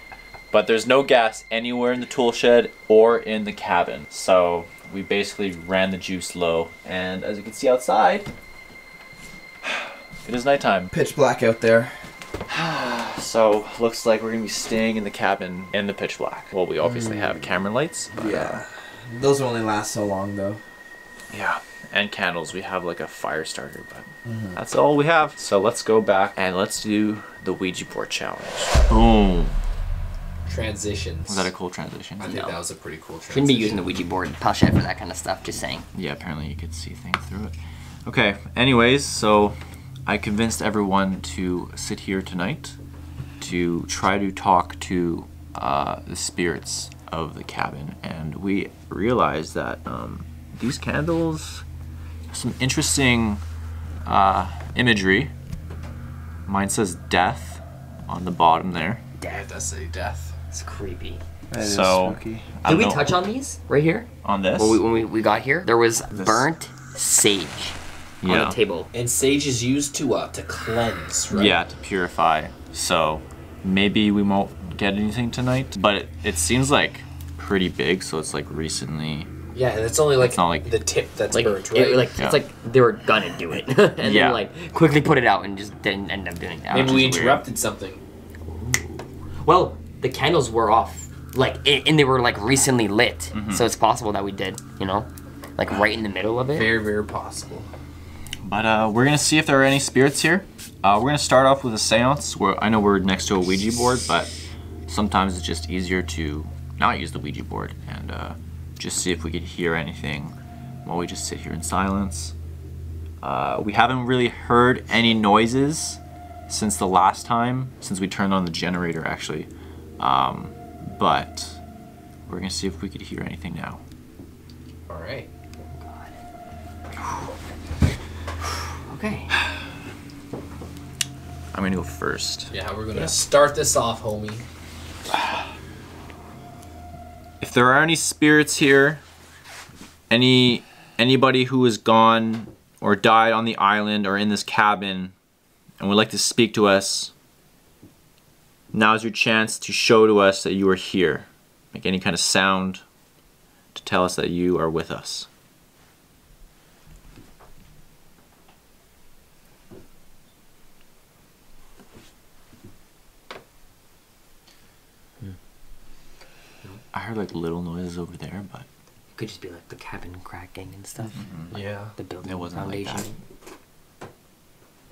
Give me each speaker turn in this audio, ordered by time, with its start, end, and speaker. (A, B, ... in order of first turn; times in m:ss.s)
0:00.5-0:08.3 A
0:10.2-0:10.9 A
0:10.9-0:12.0 B
0:12.5-0:18.6 A
0:18.1-0:20.6 B
0:21.3-0:29.5 A
0:24.2-0:24.6 B
0:30.4-0:31.5 C
0:31.3-0:32.3 A
0:32.2-0:34.0 C
0:32.2-0:32.6 D
0:33.3-0:35.9 D
0:35.9-0:42.8 A
0:43.4-0:51.6 A
0:52.3-0:53.4 A
0:54.0-0:55.3 A
0:56.4-0:59.0 A
0:59.2-0:59.4 D
0:59.2-1:00.3 C
1:00.5-1:01.2 D
1:01.5-1:02.5 B
1:01.6-1:03.1 A
1:02.6-1:08.9 D
1:04.2-1:04.8 A
1:06.1-1:06.5 B
1:08.2-1:08.6 A
1:08.9-1:11.6 C
1:11.3-1:19.3 A
1:19.5-1:22.1 C
1:20.2-1:20.8 A
1:21.3-1:27.0 D
1:23.5-1:24.4 A
1:26.7-1:28.0 C
1:26.8-1:27.4 A
1:28.4-1:36.7 D
1:33.3-1:33.6 A
1:36.5-1:37.7 C
1:38.4-1:44.3 A
1:44.9-1:52.3 A
1:53.2-1:59.5 A
2:00.0-2:01.6 A
2:02.3-2:03.8 A
2:04.9-2:05.3 C
2:05.7-2:06.2 D
2:08.9-2:09.3 D
2:11.5-2:13.2 A
2:12.5-2:14.4 C
2:17.4-2:19.0 A
2:20.1-2:25.1 A
2:25.8-2:27.1 A
2:28.7-2:32.8 A
2:33.7-2:35.3 A
2:46.9-2:48.7 A
2:49.1-2:51.2 D
2:51.1-2:51.6 A
2:51.5-2:51.9 C
2:52.0-2:53.2 D
2:52.2-2:53.1 A